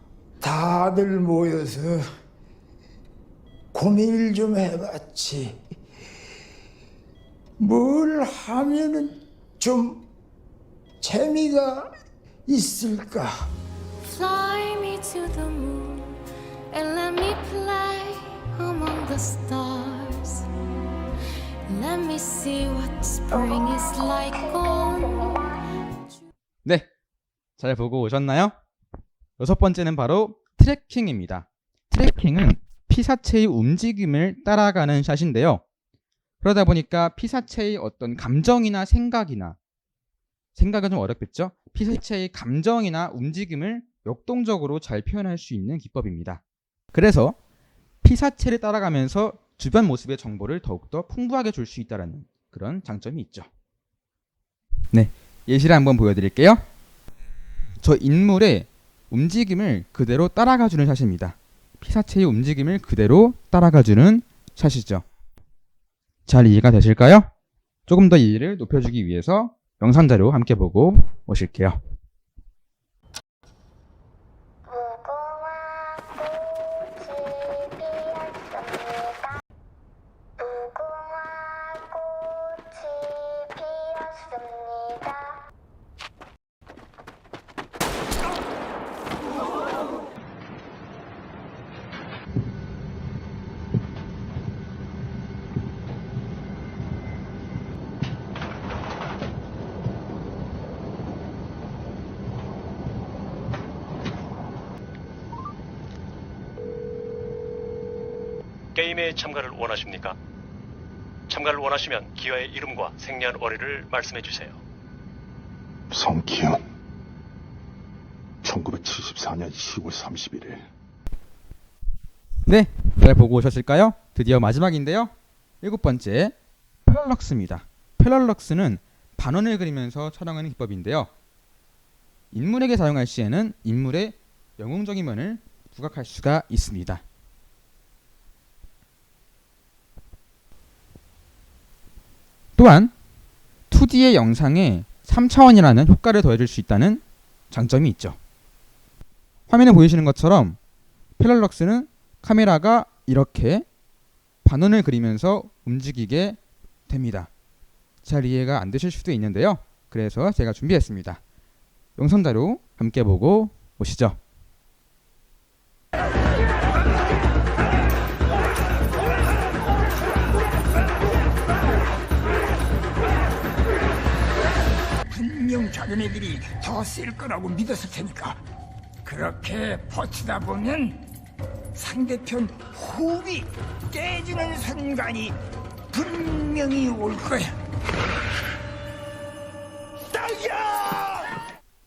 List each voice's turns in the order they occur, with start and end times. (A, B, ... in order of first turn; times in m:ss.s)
0:00.4-0:02.0 A
0:03.7-0:05.6 A
0:07.6-0:10.1 A
0:11.0-0:11.9 A
0:12.5-0:13.5 A
0:14.0-0:20.4 B
0:21.7-0:25.4 B
0:26.6-0:26.9 C
0:27.6-0:28.5 C
0:29.4-0:35.6 C
0:36.4-0:39.6 C
0:40.5-0:46.4 C
0:46.9-0:47.4 C
0:48.0-0:53.5 C
0:54.9-0:56.6 C
0:57.8-1:05.0 C
1:06.3-1:07.3 C
1:07.9-1:11.8 C
1:14.7-1:19.3 D
1:20.4-1:25.4 D
1:48.7-1:50.2 E
1:51.3-1:54.6 E
1:55.9-1:56.6 F
1:58.4-2:00.7 F
2:02.4-2:06.3 C
2:06.9-2:11.1 C
2:12.3-2:17.0 C
2:22.6-2:22.9 C
2:23.7-2:28.2 C
2:29.5-2:30.6 C
2:31.2-2:33.7 C
2:34.4-2:37.3 C
2:38.0-2:41.2 C
2:42.0-2:44.2 C
2:55.1-2:58.4 A
2:59.0-3:01.0 A
3:01.7-3:05.4 A
3:05.9-3:07.5 A
3:10.1-3:11.3 A